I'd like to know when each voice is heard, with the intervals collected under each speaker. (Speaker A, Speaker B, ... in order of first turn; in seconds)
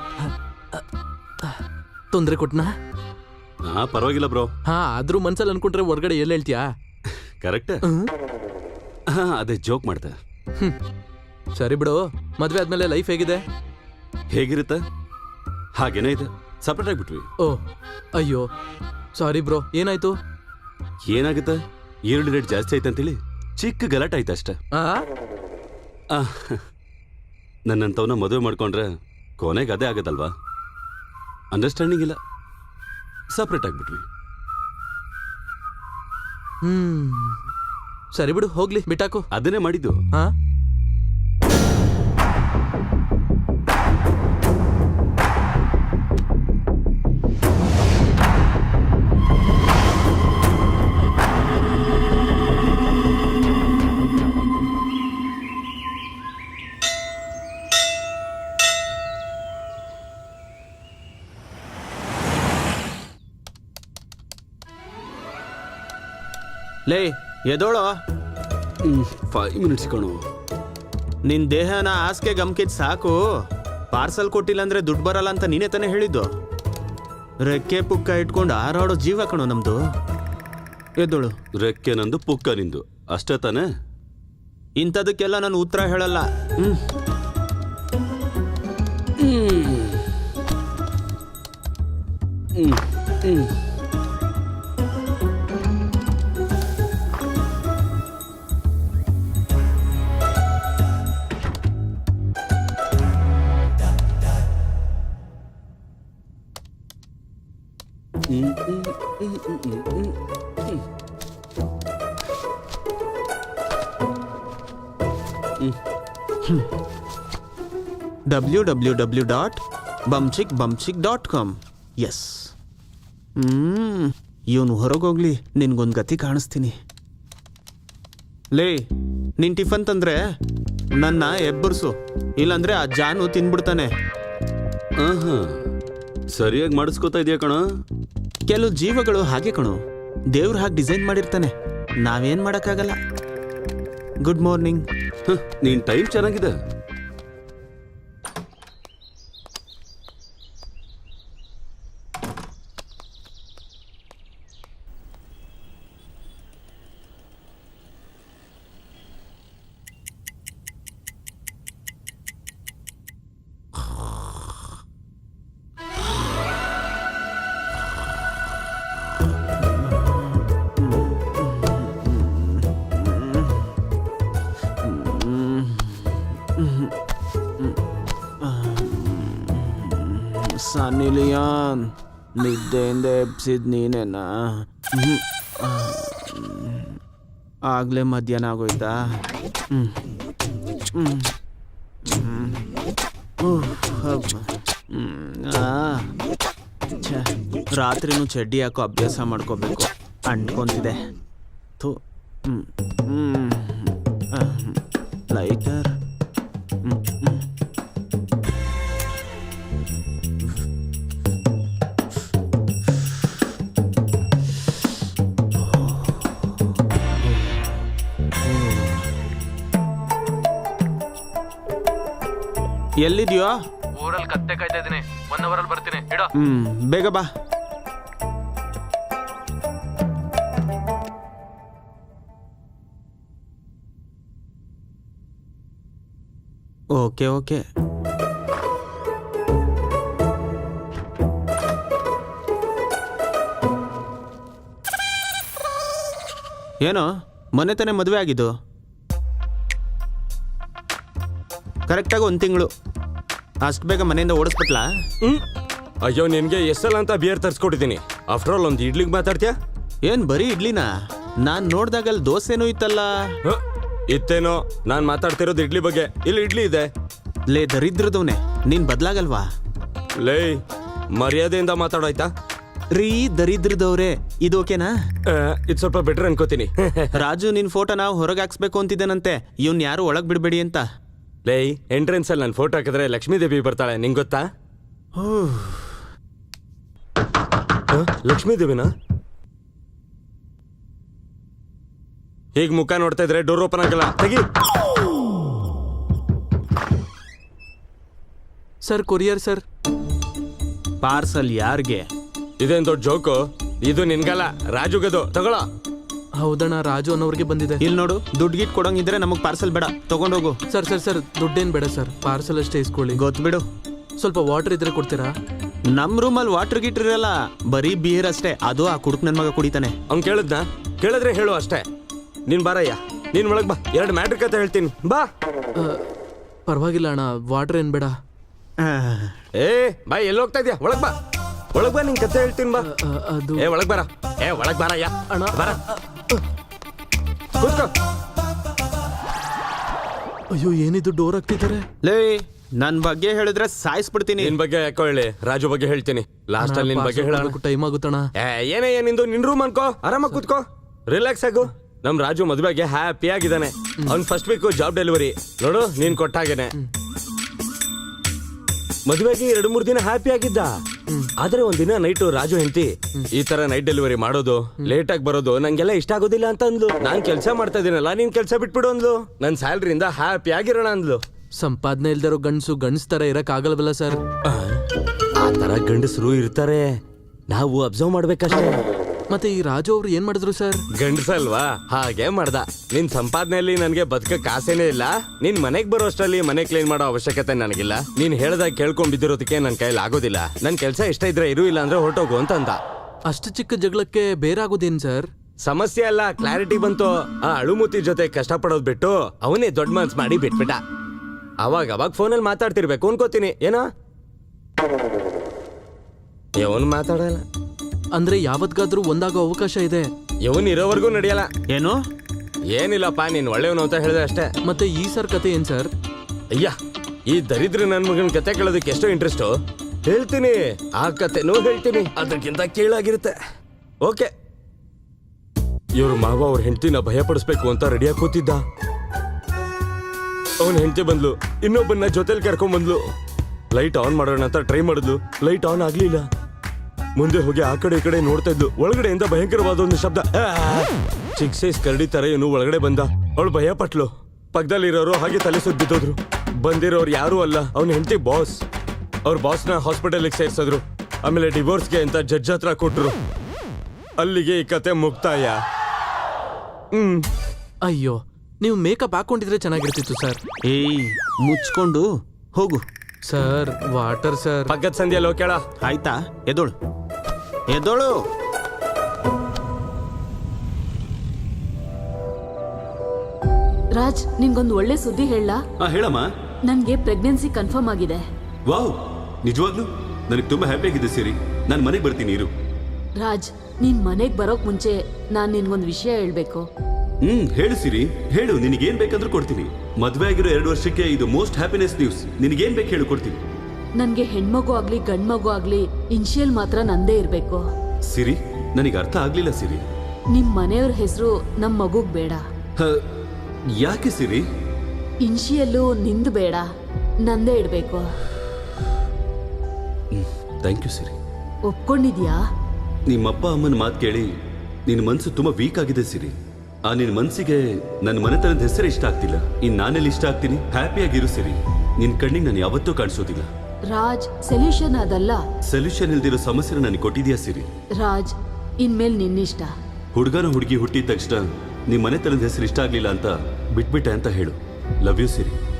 Speaker A: 0.2-0.8, 2.1-2.7, 4.7-6.7, 7.8-8.1, 11.6-13.4, 18.1-18.5, 19.1-20.1, 24.7-25.1, 36.6-37.4, 38.1-39.3, 224.0-226.3, 298.8-299.6, 306.4-307.8, 310.7-313.2, 314.2-315.3, 325.7-326.0, 326.7-328.1, 332.8-333.7, 335.3-336.4, 340.5-341.9, 346.6-348.3, 361.1-361.3, 371.6-374.2, 379.3-380.8, 393.3-395.3, 408.1-410.1, 414.6-415.9, 457.8-460.4, 463.2-464.7
Speaker B: 3.6-4.5, 7.4-7.8, 9.1-10.2, 14.3-14.8, 15.8-17.3, 21.1-24.6, 26.1-26.6, 27.7-28.9, 29.4-30.3, 31.5-32.2, 33.3-34.0, 39.3-40.0, 68.8-70.2, 81.6-83.7, 89.2-90.0, 92.5-93.5, 108.3-110.1, 135.0-135.5, 136.3-137.6, 145.2-146.5, 475.8-476.3, 478.7-482.5, 487.2-493.4, 498.1-499.9, 503.8-504.4, 510.1-511.1, 513.1-514.3, 514.9-516.4, 516.9-523.5, 525.7-527.7, 530.1-535.6
Speaker C: 66.9-67.9, 71.2-73.2, 73.9-76.3, 77.4-79.8, 81.0-81.4, 84.8-86.8, 118.3-122.5, 123.4-126.7, 128.5-128.8, 129.4-130.2, 131.0-133.9, 138.5-139.8, 140.3-142.9, 144.2-144.8, 169.6-173.7, 174.8-176.9, 178.4-187.0, 187.7-188.9, 189.7-190.0, 190.9-191.3, 192.1-192.7, 193.4-196.1, 196.9-201.0, 201.8-204.8, 205.3-205.9, 206.8-207.4, 223.0-223.6, 226.4-227.3, 236.9-237.6, 246.8-248.5, 251.9-252.7, 253.6-254.8, 260.0-260.9, 261.4-263.3, 267.5-269.5, 272.9-274.9, 277.1-280.8, 285.1-286.0, 301.0-302.1, 307.8-310.6, 313.1-313.6, 315.9-320.0, 328.8-329.3, 342.0-344.5, 411.7-412.0, 460.6-462.8, 465.8-466.7, 467.7-468.2
Speaker D: 256.0-259.5, 263.4-266.9, 270.2-270.6, 271.1-272.3, 275.3-277.1, 281.4-284.4, 287.9-288.9, 292.6-294.4, 302.6-305.6, 320.1-321.8, 322.5-325.2, 329.6-331.1, 331.7-332.9, 333.6-335.8, 337.6-337.9, 344.4-347.6, 348.4-356.8, 359.1-360.7, 361.4-371.2, 374.4-374.8, 375.4-376.9, 377.5-378.8, 381.0-392.8, 395.6-400.8, 401.6-403.8, 406.6-407.4, 410.4-411.5, 412.7-414.5, 417.3-419.5, 420.1-423.4, 424.0-424.3, 425.9-428.6, 430.6-433.0, 433.7-436.3, 437.1-448.6, 449.2-453.1, 454.2-455.6, 456.9-457.3, 464.7-465.6
Speaker E: 473.9-475.6, 476.7-478.2, 483.1-486.6, 494.0-497.6, 500.3-502.4, 505.2-506.6, 507.2-508.0, 511.7-512.4, 523.9-525.4, 528.0-529.7